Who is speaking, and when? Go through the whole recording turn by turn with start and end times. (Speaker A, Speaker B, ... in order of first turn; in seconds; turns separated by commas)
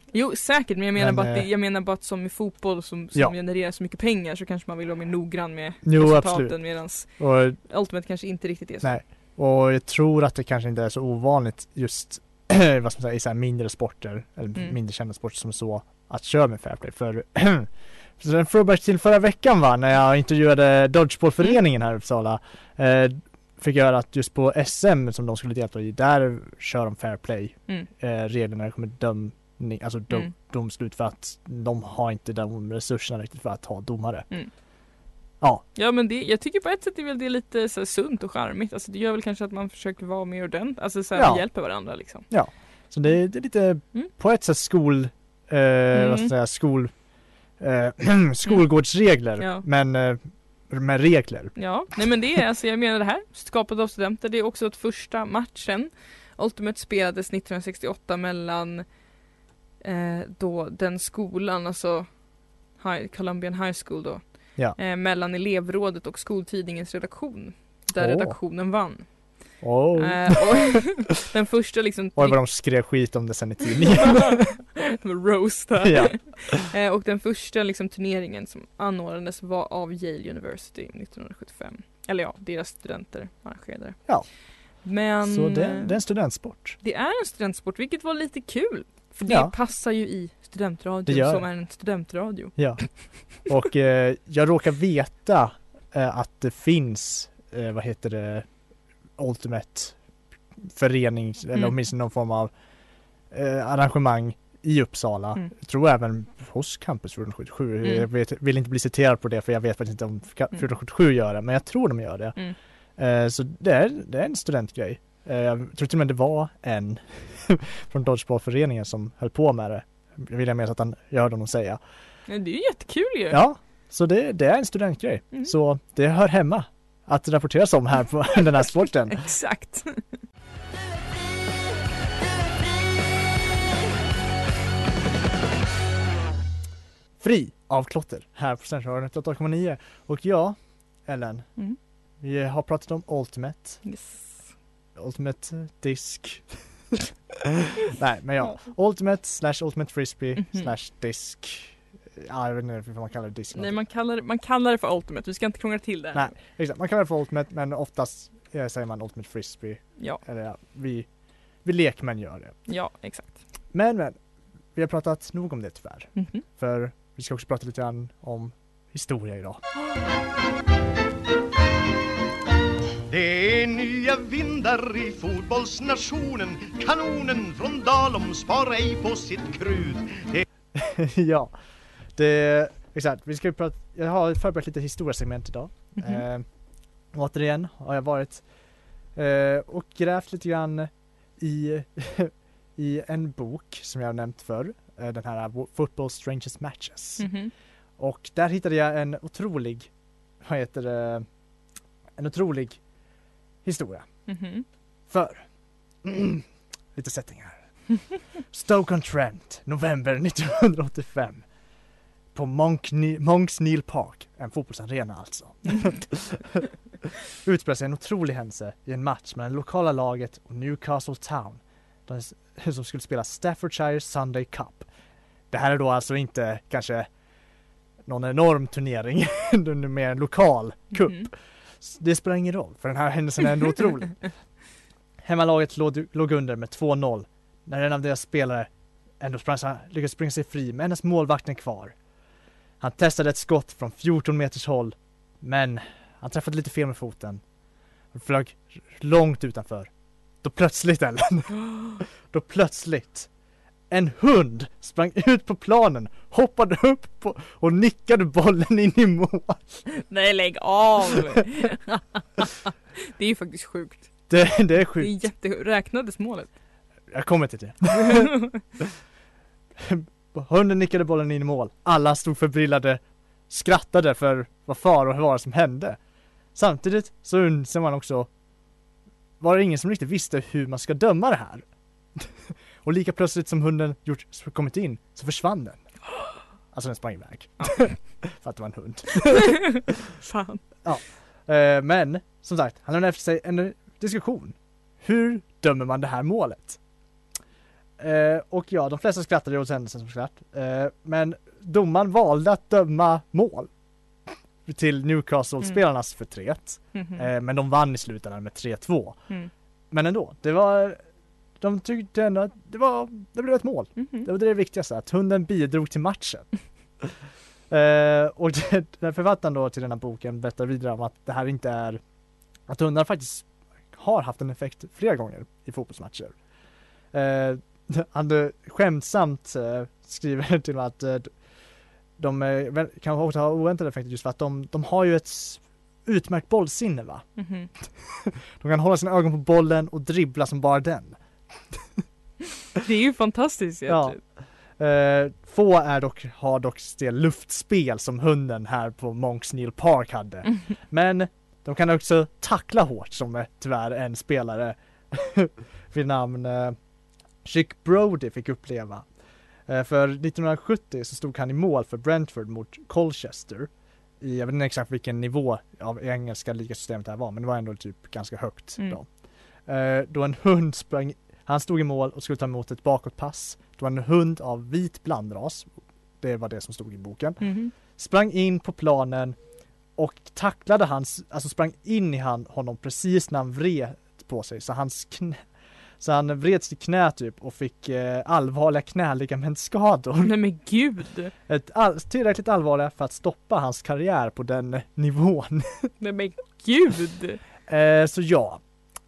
Speaker A: 0.1-8.9, Speaker B: 1.0-1.5, Speaker B: 5.8-7.6, Speaker B: 8.8-34.3, Speaker A: 35.8-42.3, Speaker B: 41.1-41.5, Speaker B: 42.3-46.9, Speaker A: 45.9-46.3, Speaker B: 47.6-51.6, Speaker A: 49.4-49.6, Speaker A: 51.6-58.9, Speaker A: 59.8-72.4, Speaker B: 68.0-68.4, Speaker B: 69.6-70.9, Speaker B: 72.2-74.5, Speaker A: 74.8-86.0, Speaker B: 75.8-76.6, Speaker B: 84.8-86.8, Speaker A: 86.8-93.3, Speaker B: 89.3-89.5, Speaker B: 91.1-91.5, Speaker B: 92.6-98.5, Speaker B: 99.2-100.0, Speaker B: 100.6-102.5, Speaker B: 103.3-112.4, Speaker B: 113.0-121.8, Speaker A: 122.3-123.4, Speaker B: 123.3-129.2, Speaker A: 129.1-130.1, Speaker B: 137.2-141.5, Speaker B: 142.2-143.8, Speaker A: 143.8-144.6, Speaker B: 144.9-146.8, Speaker B: 147.8-153.8, Speaker A: 150.4-150.7, Speaker A: 153.5-156.3, Speaker B: 156.1-161.1, Speaker B: 161.6-162.6, Speaker A: 162.7-163.4, Speaker B: 163.7-164.2, Speaker B: 164.8-169.6, Speaker A: 166.2-166.4, Speaker C: 173.1-180.4, Speaker B: 180.8-181.5, Speaker B: 182.2-186.5, Speaker A: 186.0-186.2, Speaker B: 187.1-188.4, Speaker B: 189.2-197.3, Speaker A: 197.2-197.5, Speaker B: 198.0-201.3, Speaker B: 202.2-202.8, Speaker B: 203.6-204.3, Speaker A: 204.3-204.7, Speaker B: 205.1-205.5, Speaker B: 206.0-211.4, Speaker B: 212.3-216.7, Speaker B: 217.4-224.9, Speaker B: 225.5-227.1, Speaker B: 228.1-234.3, Speaker A: 230.9-231.3, Speaker B: 235.2-238.7, Speaker B: 239.2-242.0, Speaker B: 242.8-247.4, Speaker B: 248.1-249.9, Speaker B: 250.4-253.3, Speaker A: 251.7-251.9, Speaker B: 253.9-259.8, Speaker A: 260.0-262.5, Speaker A: 263.2-264.3, Speaker B: 264.3-265.2, Speaker A: 265.0-266.5, Speaker B: 267.1-268.3, Speaker B: 269.8-276.0, Speaker B: 276.6-278.3, Speaker B: 279.4-285.8, Speaker B: 286.7-289.9, Speaker A: 287.6-288.2, Speaker A: 290.2-290.6, Speaker B: 290.8-296.8, Speaker B: 298.0-303.7, Speaker B: 304.6-309.2, Speaker A: 306.9-307.3, Speaker B: 309.9-311.0, Speaker B: 311.6-316.5, Speaker A: 314.0-314.3, Speaker B: 317.7-322.0, Speaker B: 322.7-326.4, Speaker B: 327.1-331.4, Speaker B: 332.2-337.3, Speaker A: 337.4-337.7, Speaker B: 338.0-341.2, Speaker B: 341.7-342.0, Speaker A: 342.8-344.2, Speaker B: 343.9-356.8, Speaker B: 357.4-359.1, Speaker B: 359.7-369.1, Speaker B: 369.7-379.4, Speaker A: 377.4-377.7, Speaker B: 380.0-385.5, Speaker B: 386.0-390.4, Speaker A: 390.2-391.3, Speaker B: 391.5-395.9, Speaker A: 396.0-397.4, Speaker B: 397.7-398.6